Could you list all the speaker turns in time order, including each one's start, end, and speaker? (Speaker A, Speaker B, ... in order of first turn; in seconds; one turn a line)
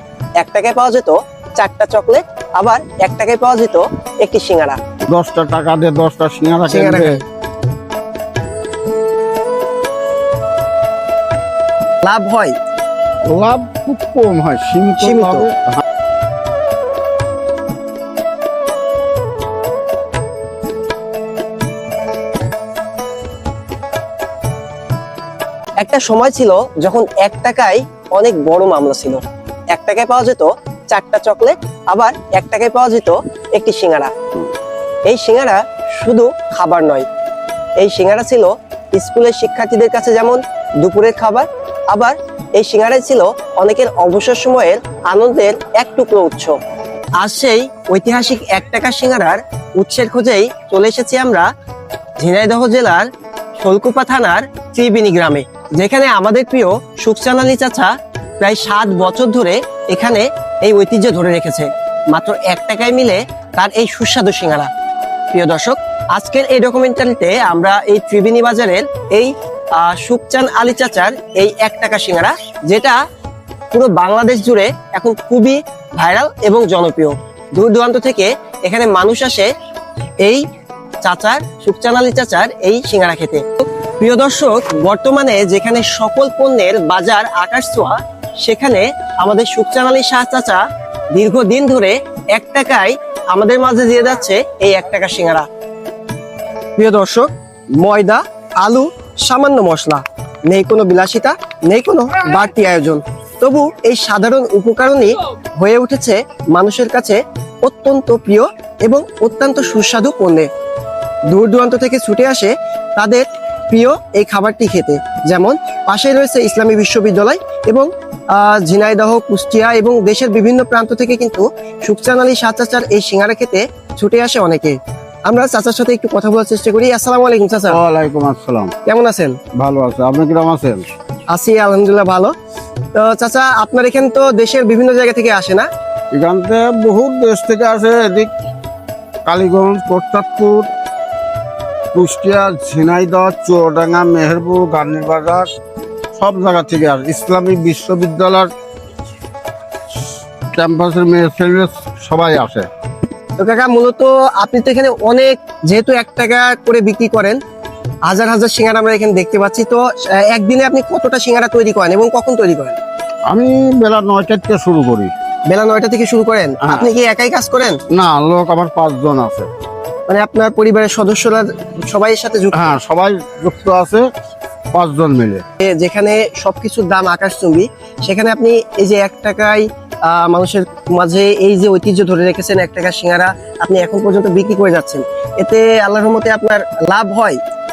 Speaker A: 0.4-4.8
Speaker B: 5.1-7.2
Speaker A: 6.7-7.2
Speaker A: 12.0-12.5
Speaker B: 13.3-15.8
Speaker A: 15.0-15.4
Speaker A: 25.8-34.1
Speaker A: 35.0-37.1
Speaker A: 37.8-46.6
Speaker A: 47.2-51.5
Speaker A: 52.2-64.7
Speaker A: 65.3-73.0
Speaker A: 73.7-79.5
Speaker A: 81.0-95.5
Speaker A: 96.8-110.5
Speaker A: 111.3-124.8
Speaker A: 125.3-127.8
Speaker B: 127.7-128.7
Speaker A: 128.8-129.4
Speaker B: 129.6-130.8
Speaker A: 131.3-132.3
Speaker A: 132.9-135.7
Speaker B: 136.1-138.3
Speaker B: 139.2-140.7
Speaker B: 141.9-145.5
Speaker B: 146.2-148.5
Speaker B: 150.5-152.7
Speaker A: 153.4-157.4
Speaker A: 158.1-162.8
Speaker B: 163.3-165.1
Speaker A: 165.5-167.8
Speaker B: 166.6-166.9
Speaker B: 167.9-169.5
Speaker A: 170.1-172.7
Speaker B: 172.5-174.1
Speaker B: 174.7-175.4
Speaker A: 175.6-187.4